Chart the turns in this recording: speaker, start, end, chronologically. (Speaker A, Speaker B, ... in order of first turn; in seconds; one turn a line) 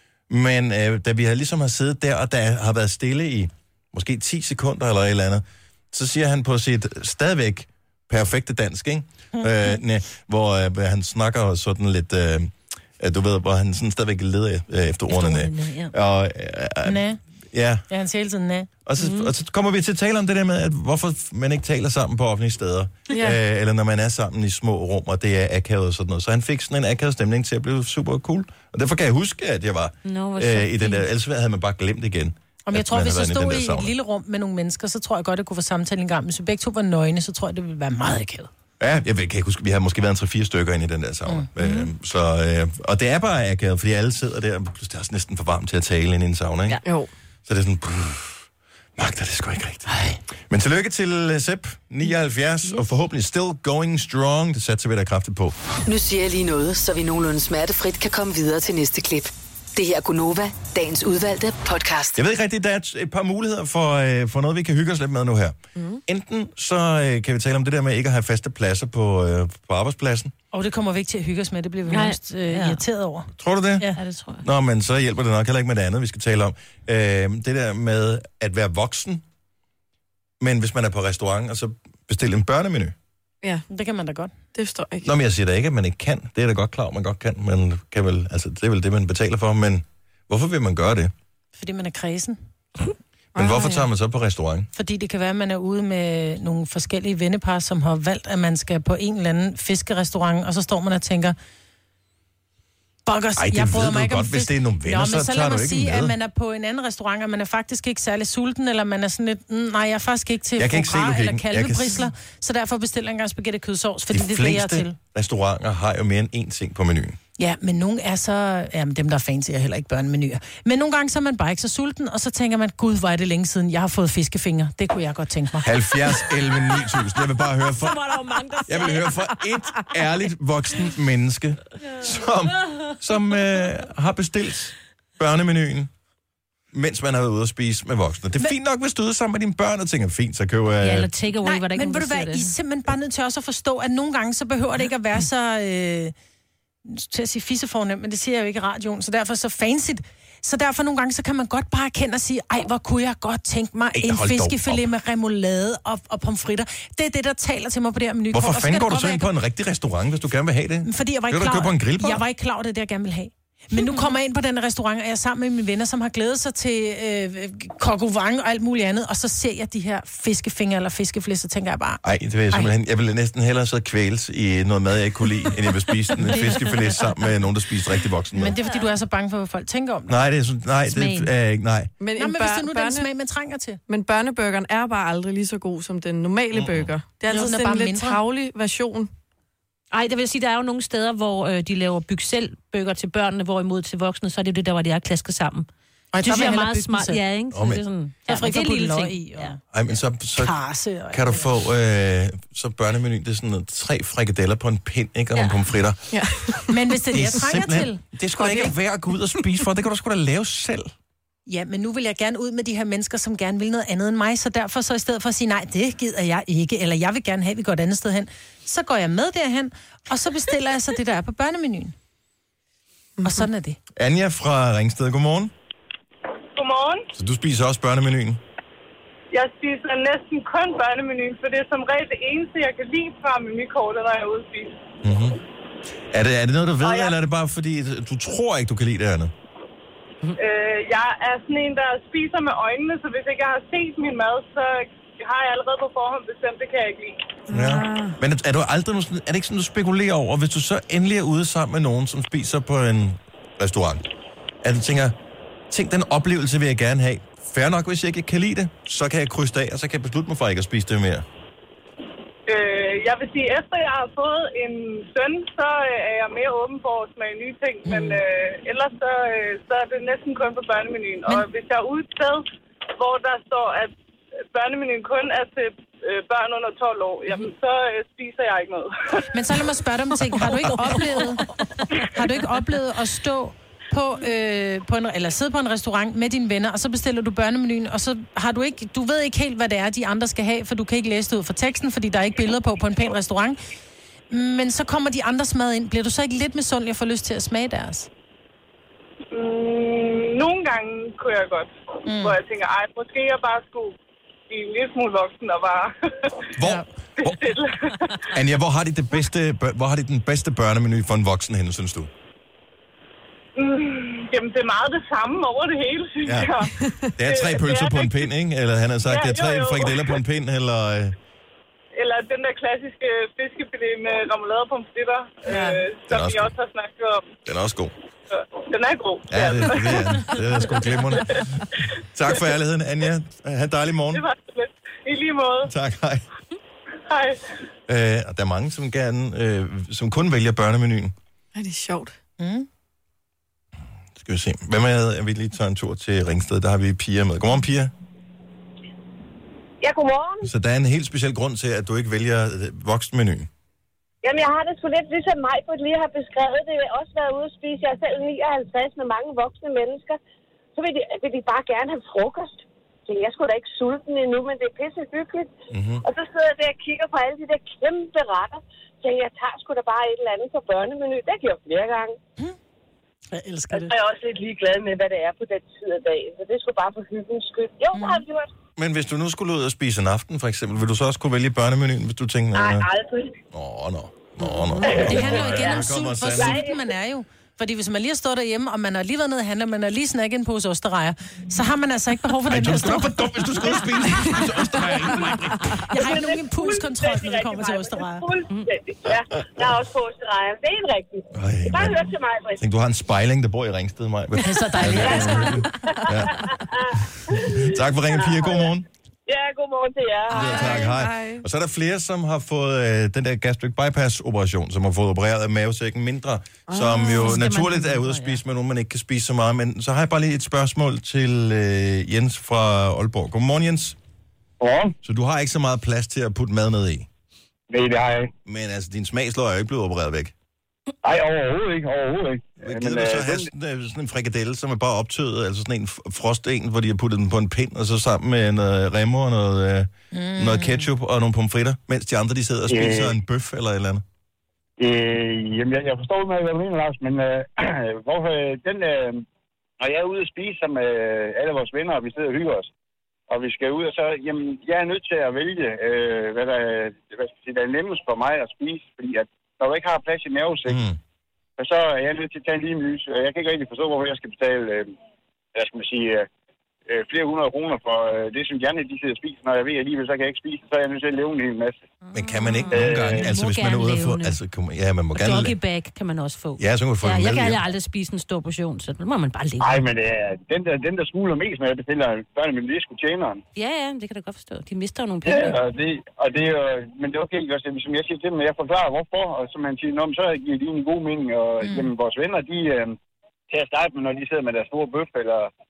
Speaker A: 0.3-17.9
Speaker B: 15.1-15.9
Speaker C: 16.9-17.2
Speaker C: 17.9-18.7
Speaker A: 18.9-33.9
Speaker B: 19.0-19.3
Speaker B: 30.1-31.1
Speaker C: 32.7-38.5
Speaker A: 38.8-46.8
Speaker B: 41.6-41.9
Speaker A: 47.5-48.4
Speaker A: 49.0-49.9
Speaker A: 50.5-55.6
Speaker D: 55.9-62.2
Speaker A: 62.2-70.3
Speaker C: 70.5-74.0
Speaker B: 71.9-72.8
Speaker A: 73.4-79.2
Speaker B: 73.9-74.5
Speaker A: 80.4-83.0
Speaker C: 83.7-84.3
Speaker E: 84.5-85.1
Speaker A: 85.0-91.1
Speaker C: 91.6-92.4
Speaker E: 93.3-93.9
Speaker A: 93.3-94.7
Speaker C: 94.8-101.4
Speaker C: 103.1-115.0
Speaker A: 103.4-106.2
Speaker A: 110.6-112.1
Speaker A: 114.1-117.2
Speaker C: 117.4-125.7
Speaker A: 125.6-128.1
Speaker B: 127.6-129.3
Speaker A: 128.7-135.9
Speaker A: 136.7-141.1
Speaker B: 140.8-142.5
Speaker C: 141.4-146.1
Speaker C: 146.8-159.3
Speaker A: 153.9-154.8
Speaker A: 158.3-162.2
Speaker C: 160.8-172.7
Speaker A: 172.0-178.6
Speaker C: 176.3-176.8
Speaker C: 178.3-180.1
Speaker A: 180.1-181.9
Speaker B: 180.9-181.3
Speaker E: 182.0-183.1
Speaker C: 182.2-183.8
Speaker E: 183.9-189.1
Speaker A: 186.5-186.9
Speaker C: 187.3-188.2
Speaker B: 189.9-195.7
Speaker C: 196.1-197.2
Speaker B: 196.2-199.5
Speaker A: 197.5-197.8
Speaker C: 198.3-199.6
Speaker A: 199.7-200.6
Speaker C: 200.4-201.5
Speaker A: 201.1-206.0
Speaker E: 206.1-206.6
Speaker C: 206.7-208.0
Speaker A: 207.1-210.9
Speaker E: 208.4-208.8
Speaker C: 211.5-221.9
Speaker C: 223.2-223.8
Speaker A: 224.0-225.5
Speaker F: 226.6-227.1
Speaker A: 227.1-228.4
Speaker F: 229.3-234.8
Speaker A: 235.0-235.4
Speaker A: 236.1-239.3
Speaker F: 236.8-237.1
Speaker F: 240.4-247.2
Speaker E: 247.5-248.2
Speaker A: 247.5-254.1
Speaker A: 254.6-255.2
Speaker A: 255.7-261.2
Speaker F: 262.5-273.9
Speaker C: 267.9-268.2
Speaker F: 274.5-279.3
Speaker C: 279.3-293.6
Speaker B: 280.6-281.4
Speaker C: 294.3-298.1
Speaker F: 299.3-304.0
Speaker C: 302.1-302.4
Speaker F: 304.5-306.5
Speaker A: 306.6-307.4
Speaker F: 307.2-308.4
Speaker A: 308.3-312.1
Speaker F: 313.6-318.3
Speaker A: 316.2-321.2
Speaker E: 316.8-317.1
Speaker F: 319.1-320.2
Speaker F: 322.0-327.3
Speaker E: 325.5-325.8
Speaker A: 326.1-326.6
Speaker A: 327.4-327.9
Speaker F: 328.3-331.4
Speaker A: 329.3-334.2
Speaker F: 334.1-335.7
Speaker A: 335.7-336.3
Speaker F: 337.1-337.4
Speaker A: 337.9-341.1
Speaker E: 341.6-342.2
Speaker C: 342.4-342.7
Speaker A: 344.2-347.9
Speaker G: 349.8-350.5
Speaker A: 350.4-353.5
Speaker G: 354.2-360.2
Speaker G: 360.8-372.2
Speaker A: 365.7-366.0
Speaker C: 373.3-373.9
Speaker G: 373.7-378.5
Speaker C: 377.9-378.2
Speaker A: 378.8-382.9
Speaker G: 382.5-383.4
Speaker A: 383.5-386.6
Speaker G: 384.8-386.8
Speaker C: 384.8-394.4
Speaker A: 392.5-395.8
Speaker C: 395.9-398.3
Speaker G: 396.0-402.6
Speaker A: 401.3-402.0
Speaker A: 402.6-406.5
Speaker C: 404.4-405.7
Speaker G: 405.0-408.7
Speaker A: 407.3-408.9
Speaker G: 409.3-410.8
Speaker E: 410.3-411.4
Speaker A: 410.3-424.0
Speaker E: 416.7-417.4
Speaker B: 416.9-418.4
Speaker H: 424.6-424.9
Speaker A: 425.0-427.1
Speaker H: 427.7-428.3
Speaker A: 428.5-430.3
Speaker H: 431.0-433.5
Speaker A: 432.6-444.0
Speaker C: 440.1-440.9
Speaker H: 442.7-443.2
Speaker H: 444.8-449.2
Speaker H: 449.8-452.7
Speaker H: 453.3-460.8
Speaker A: 460.7-461.0
Speaker H: 461.6-464.9
Speaker H: 465.6-466.3
Speaker H: 466.9-471.9
Speaker A: 472.1-475.6
Speaker B: 472.2-474.4
Speaker H: 472.7-473.3
Speaker B: 475.1-479.9
Speaker A: 476.6-477.6
Speaker H: 479.6-483.4
Speaker B: 483.6-485.6
Speaker H: 485.2-493.0
Speaker H: 493.5-495.5